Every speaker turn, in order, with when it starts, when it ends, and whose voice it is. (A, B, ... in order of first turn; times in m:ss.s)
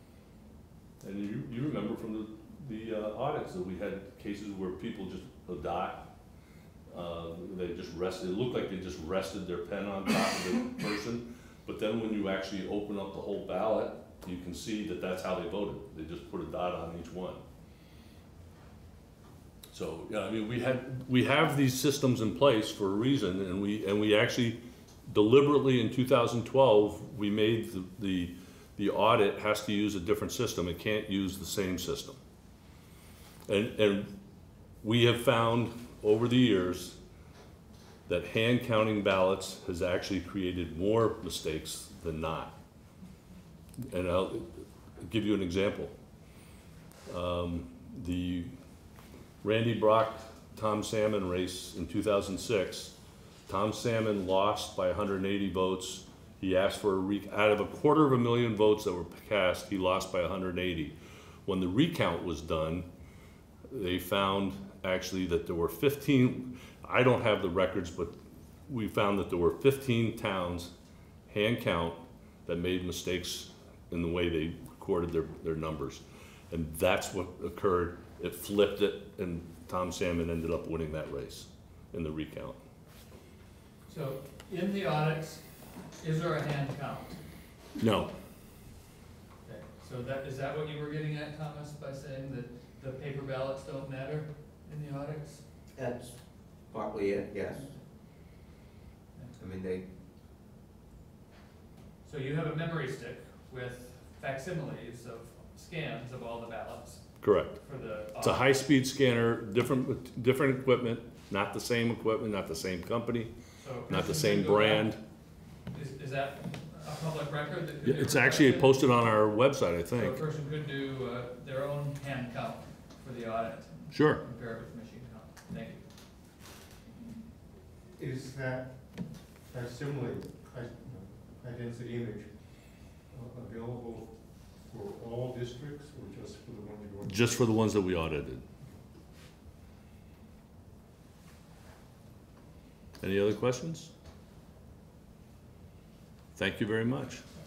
0:01.0-0:06.1 A
0:06.9-0:17.4 A
0:19.7-0:32.2 A
0:33.5-0:34.2 A
0:34.8-0:37.0 A
0:38.1-0:42.6 A
0:43.8-0:45.9 A
0:47.1-0:48.5 A
0:49.4-0:53.0 A
0:53.5-1:02.9 A
1:03.7-1:10.7 A
1:11.3-1:22.6 A
1:23.9-1:27.2 B
1:27.8-1:28.1 A
1:29.4-1:35.4 B
1:35.7-1:37.8 C
1:39.4-1:39.9 C
1:42.0-1:48.4 B
1:47.2-1:47.6 A
1:48.2-1:53.3 A
1:53.6-1:55.0 B
1:53.9-1:55.0 A
1:55.6-1:59.2 B
1:57.8-2:00.2 A
2:00.0-2:05.9 B
2:03.9-2:04.2 A
2:07.9-2:08.9 D
2:09.4-2:12.4 D
2:13.1-2:17.6 D
2:17.0-2:18.4 A
2:23.0-2:23.9 A
2:26.4-2:27.2 A